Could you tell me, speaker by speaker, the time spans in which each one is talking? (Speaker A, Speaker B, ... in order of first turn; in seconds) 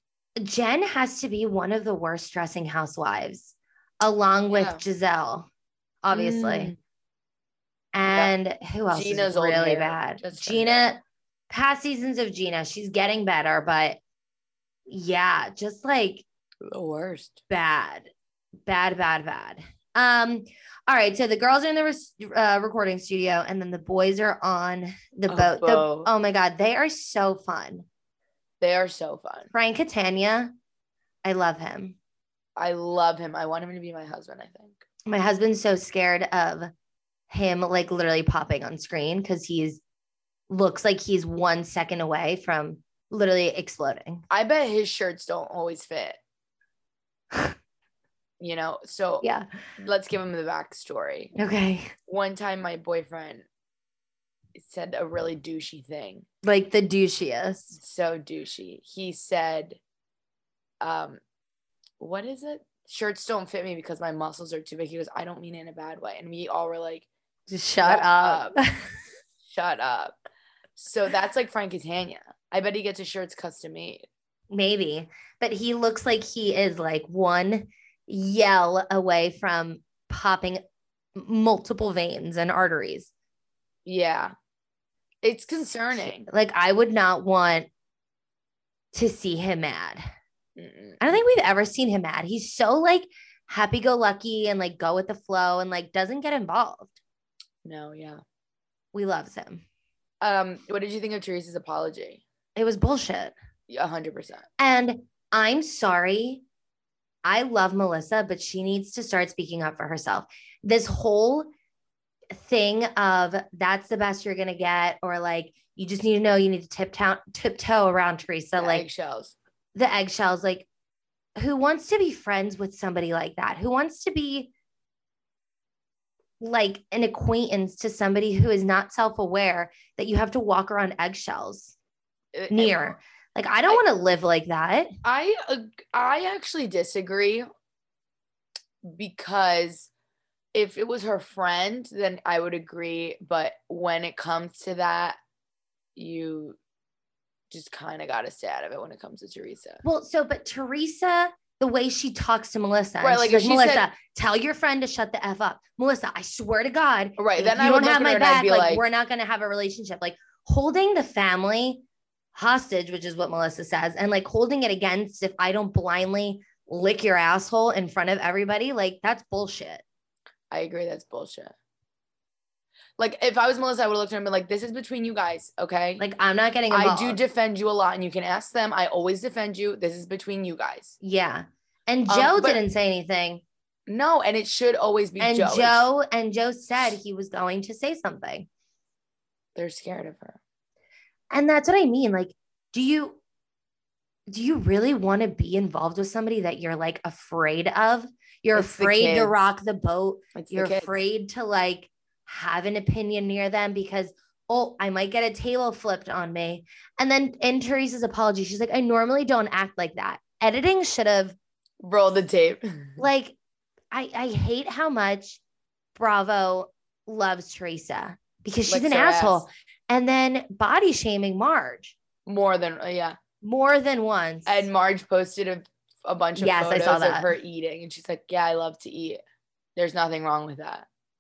Speaker A: 0.4-5.5, 6.0-6.7, 7.9-14.0, 14.9-16.2, 17.5-18.1, 18.7-27.9, 29.5-30.5, 31.2-32.0, 35.1-36.7, 37.3-39.8, 40.5-44.2, 49.2-49.5, 51.4-51.9, 56.4-57.8, 67.5-68.9, 74.5-80.6, 81.2-83.1, 85.9-87.7, 88.9-90.0, 91.0-96.9, 98.9-99.6, 102.6-103.3, 104.6-106.4, 107.2-111.5, 112.3-118.9, 119.8-120.7, 121.4-124.5, 126.4-131.8, 132.5-134.9, 149.8-161.8, 162.3-169.8, 176.0-177.2, 181.0-183.4, 185.2-188.5, 191.3-193.2, 194.3-211.4, 213.0-213.4, 213.9-215.4, 215.9-222.0, 223.4-224.7, 226.4-227.3
Speaker B: 4.5-4.8, 6.1-6.8, 8.9-10.9, 16.6-17.4, 25.3-26.1, 28.6-29.5, 32.6-34.8, 44.3-46.2, 48.4-49.3, 49.8-51.4, 52.1-53.5, 54.5-56.2, 57.8-59.8, 60.8-61.2, 62.0-67.1, 67.8-68.5, 69.4-70.2, 70.8-74.0, 83.9-84.3, 85.2-86.3, 90.6-91.0, 97.7-98.2, 100.2-102.2, 103.7-104.5, 118.6-119.3, 132.3-132.9, 135.0-137.5, 138.8-139.9, 140.5-145.2, 146.0-146.6, 147.5-149.8, 153.0-153.9, 157.2-158.8, 170.5-171.5, 173.0-176.0, 176.7-181.0, 182.1-182.6, 183.9-185.9, 189.6-190.4, 198.6-199.4, 200.4-200.9, 211.8-213.0, 218.7-219.5, 222.3-223.2, 224.5-229.2, 229.8-230.9